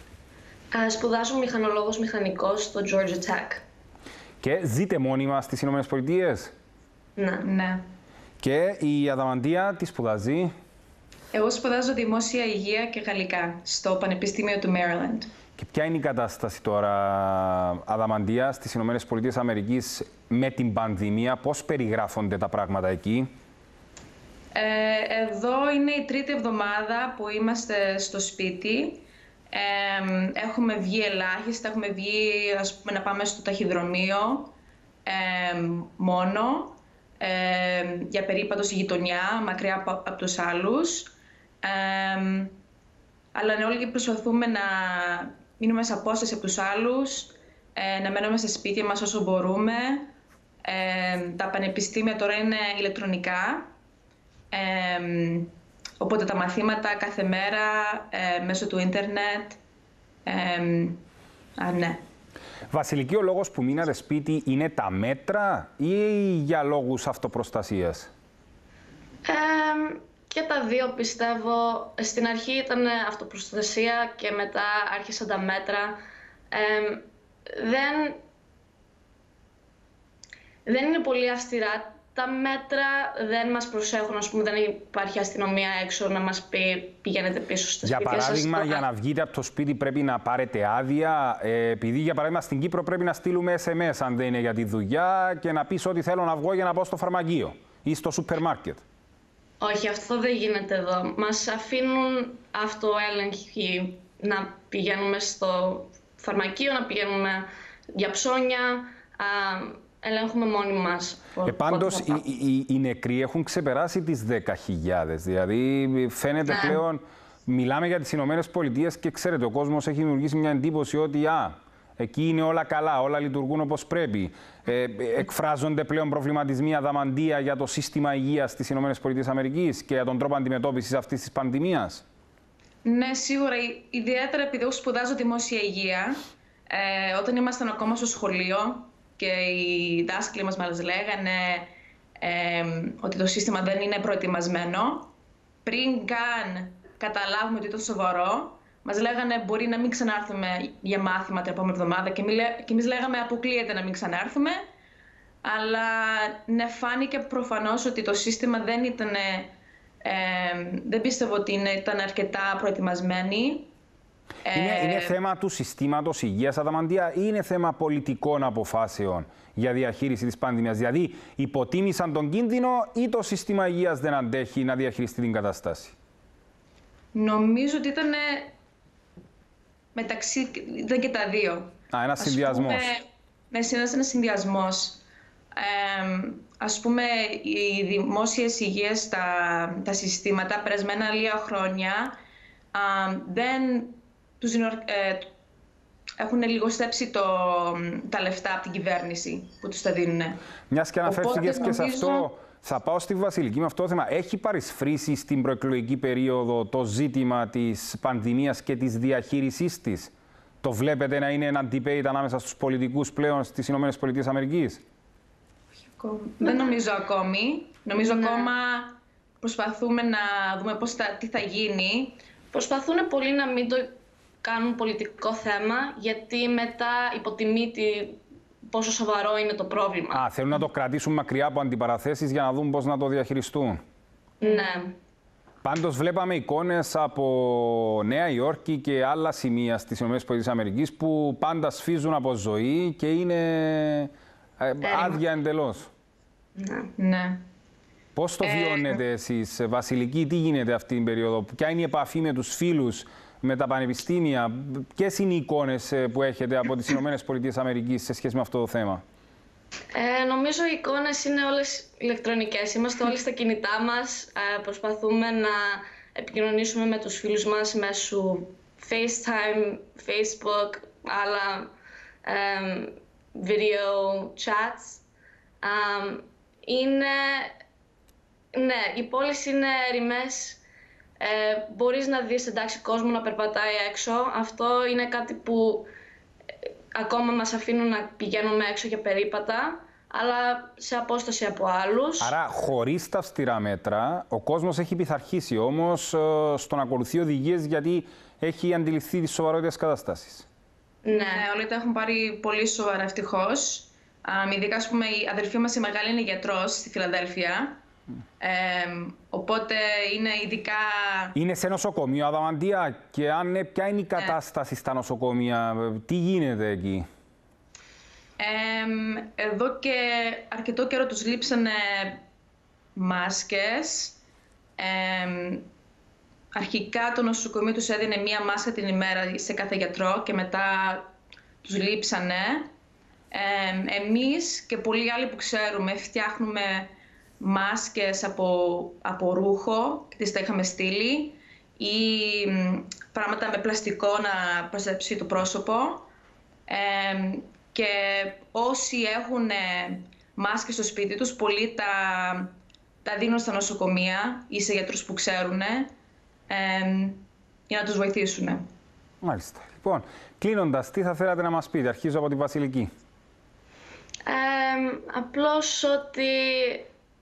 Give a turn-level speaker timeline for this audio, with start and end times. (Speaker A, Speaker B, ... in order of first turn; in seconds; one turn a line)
Speaker A: 0.7-3.6
Speaker B: 4.4-6.5
Speaker A: 7.2-7.5
Speaker C: 7.4-7.8
Speaker B: 8.4-10.5
Speaker C: 11.3-15.3
Speaker B: 15.6-23.3
Speaker C: 24.5-34.5
Speaker C: 35.0-41.1
Speaker C: 41.6-42.6
Speaker C: 43.3-50.1
Speaker C: 50.6-53.7
Speaker C: 54.5-59.6
Speaker C: 60.2-61.0
Speaker C: 61.6-62.0
Speaker B: 62.7-68.1
Speaker A: 69.2-76.0
Speaker A: 76.5-78.2
Speaker A: 80.7-88.8
Speaker B: 87.8-98.8
Speaker A: 99.6-112.2
Speaker B: 111.4-132.0
Speaker A: 116.5-116.8
Speaker C: 132.8-136.2
Speaker C: 136.7-141.7
Speaker C: 142.2-145.1
Speaker C: 145.6-154.6
Speaker C: 155.4-159.5
Speaker C: 160.0-163.7
Speaker C: 164.4-165.2
Speaker B: 164.5-175.9
Speaker C: 177.1-178.5
Speaker C: 179.9-185.0
Speaker B: 181.9-182.9
Speaker C: 185.5-192.1
Speaker C: 192.7-195.3
Speaker C: 196.2-200.4
Speaker B: 200.7-214.8
Speaker C: 201.0-202.3
Speaker C: 215.9-222.2
Speaker A: 218.0-218.5
Speaker A: 222.5-223.9
Speaker A: 224.4-230.2
Speaker B: 230.1-233.8
Speaker A: 234.4-234.9
Speaker B: 235.6-245.9
Speaker A: 244.8-245.2
Speaker A: 246.6-246.9
Speaker C: 247.0-247.4
Speaker B: 248.1-259.0
Speaker C: 248.4-249.0
Speaker A: 259.9-271.7
Speaker A: 272.2-275.0
Speaker A: 275.6-277.5
Speaker A: 278.5-280.6
Speaker A: 281.2-285.9
Speaker A: 286.9-292.3
Speaker B: 292.2-300.4
Speaker A: 301.0-301.4
Speaker C: 301.1-307.8
Speaker C: 308.4-311.3
Speaker B: 311.3-317.0
Speaker C: 318.4-322.2
Speaker C: 322.9-324.2
Speaker C: 324.8-325.6
Speaker C: 326.5-331.1
Speaker C: 331.6-332.7
Speaker C: 333.3-346.1
Speaker C: 346.7-352.5
Speaker C: 353.0-355.9
Speaker C: 356.5-358.6
Speaker B: 359.2-362.9
Speaker A: 364.2-366.9